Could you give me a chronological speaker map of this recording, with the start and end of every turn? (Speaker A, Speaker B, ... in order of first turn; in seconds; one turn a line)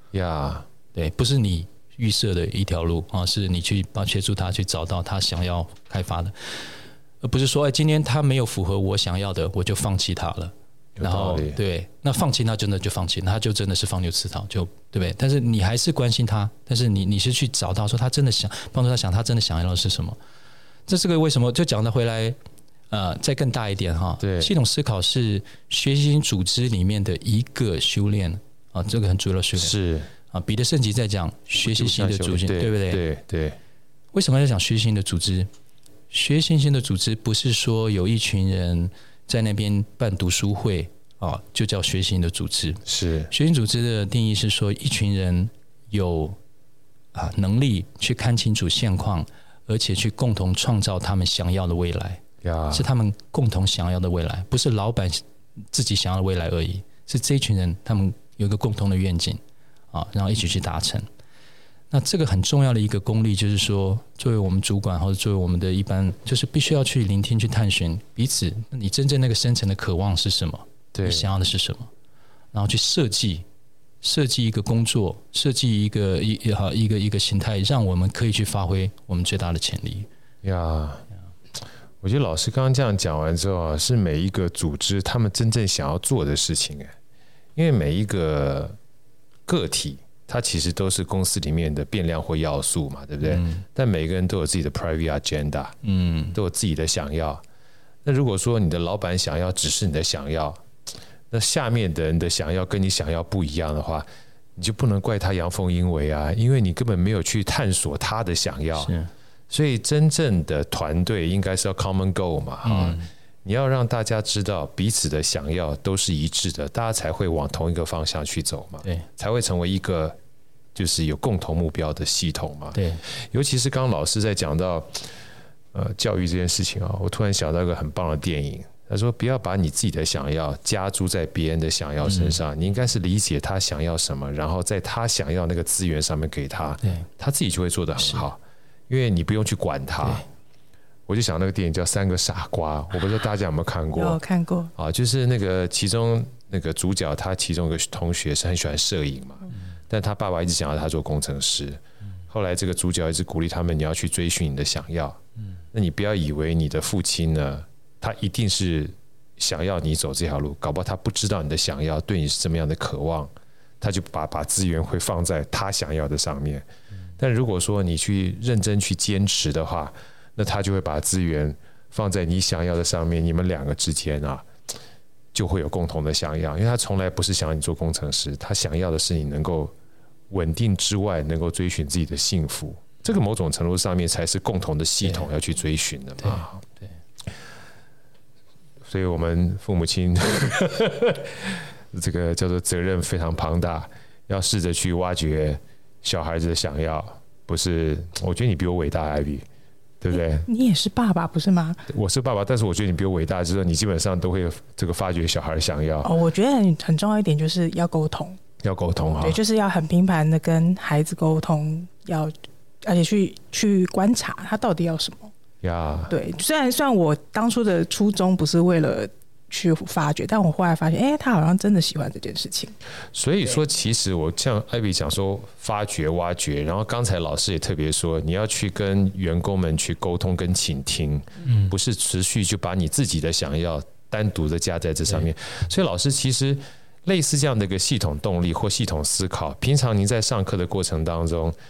Speaker A: 0.1-0.7
Speaker B: 0.9-20.2
Speaker A: 11.0-11.6
Speaker B: 20.9-22.4
Speaker B: 22.9-29.7
Speaker A: 24.2-24.5
Speaker A: 29.6-30.1
Speaker B: 30.3-33.0
Speaker A: 31.6-33.6
Speaker B: 34.1-35.5
Speaker B: 36.1-46.4
Speaker A: 42.9-43.3
Speaker B: 47.1-59.4
Speaker A: 52.4-52.9
Speaker B: 59.9-61.1
Speaker B: 61.9-71.9
Speaker A: 70.9-71.3
Speaker B: 72.5-73.5
Speaker B: 74.0-80.1
Speaker A: 80.4-81.0
Speaker A: 82.0-86.9
Speaker A: 87.6-88.8
Speaker A: 89.5-95.8
Speaker B: 93.2-93.6
Speaker B: 95.8-96.4
Speaker A: 96.3-97.4
Speaker A: 98.0-100.6
Speaker A: 101.3-108.9
Speaker B: 108.8-109.1
Speaker A: 109.5-120.2
Speaker B: 112.6-113.1
Speaker A: 120.8-125.1
Speaker B: 122.7-123.0
Speaker A: 125.7-140.2
Speaker B: 132.1-132.4
Speaker A: 141.1-144.2
Speaker C: 143.9-144.7
Speaker A: 144.8-155.2
Speaker A: 155.7-166.7
Speaker A: 167.2-174.5
Speaker A: 175.3-179.7
Speaker A: 180.3-186.6
Speaker A: 188.9-199.4
Speaker A: 200.0-200.5
Speaker C: 200.5-201.9
Speaker A: 201.9-206.1
Speaker C: 206.0-208.4
Speaker A: 208.6-209.4
Speaker C: 209.2-215.3
Speaker A: 215.6-216.1
Speaker C: 216.1-222.8
Speaker A: 223.1-241.6
Speaker B: 231.4-231.7